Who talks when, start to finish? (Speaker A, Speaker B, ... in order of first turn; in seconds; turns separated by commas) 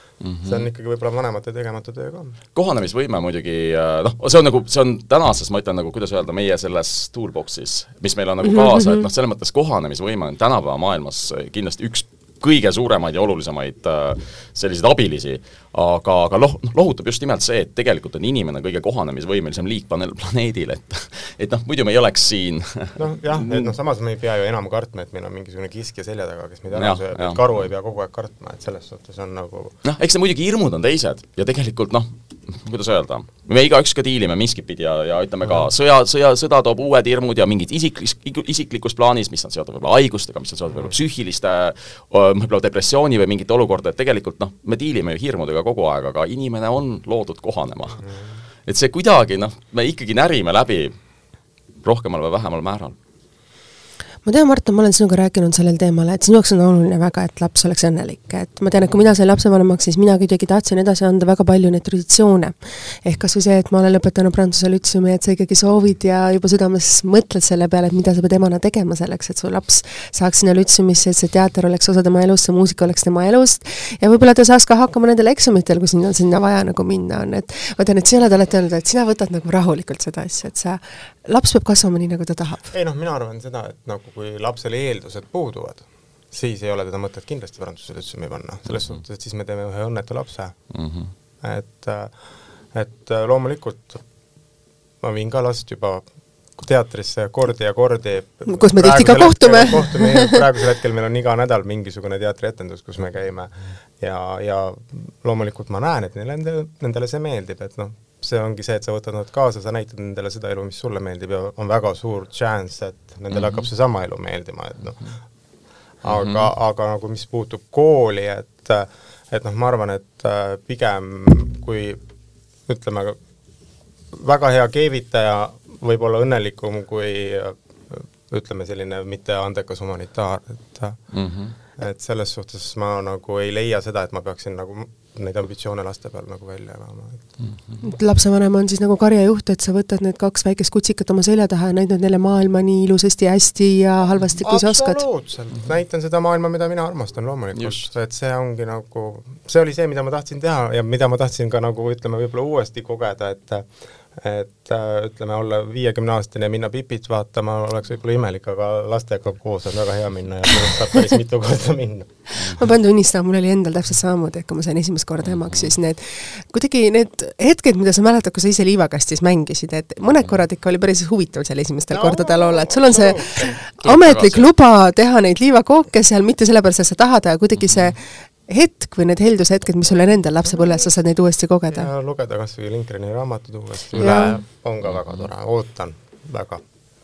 Speaker A: 0.2-0.7, Speaker B: 0.4-2.4, Speaker A: 2.5-23.7, Speaker B: 23.0-29.8, Speaker A: 26.7-27.4, Speaker A: 29.8-48.0, Speaker A: 48.6-50.9, Speaker A: 51.8-53.0, Speaker C: 54.2-82.7, Speaker B: 82.7-90.5, Speaker A: 90.7-91.1, Speaker B: 91.4-92.2, Speaker B: 92.7-94.0, Speaker B: 95.0-115.1, Speaker C: 98.5-100.4, Speaker A: 113.3-113.7, Speaker B: 116.0-122.0, Speaker A: 116.0-116.5, Speaker B: 122.7-123.2, Speaker B: 124.1-131.0, Speaker A: 131.1-131.6, Speaker B: 131.8-137.3, Speaker A: 137.4-137.8, Speaker C: 137.8-145.0, Speaker B: 144.4-162.1, Speaker A: 147.6-147.9, Speaker C: 162.4-181.9, Speaker A: 165.3-165.7, Speaker B: 171.9-173.5, Speaker A: 173.8-174.5, Speaker B: 181.7-186.6, Speaker A: 183.9-184.2, Speaker C: 184.0-184.4, Speaker A: 184.9-185.2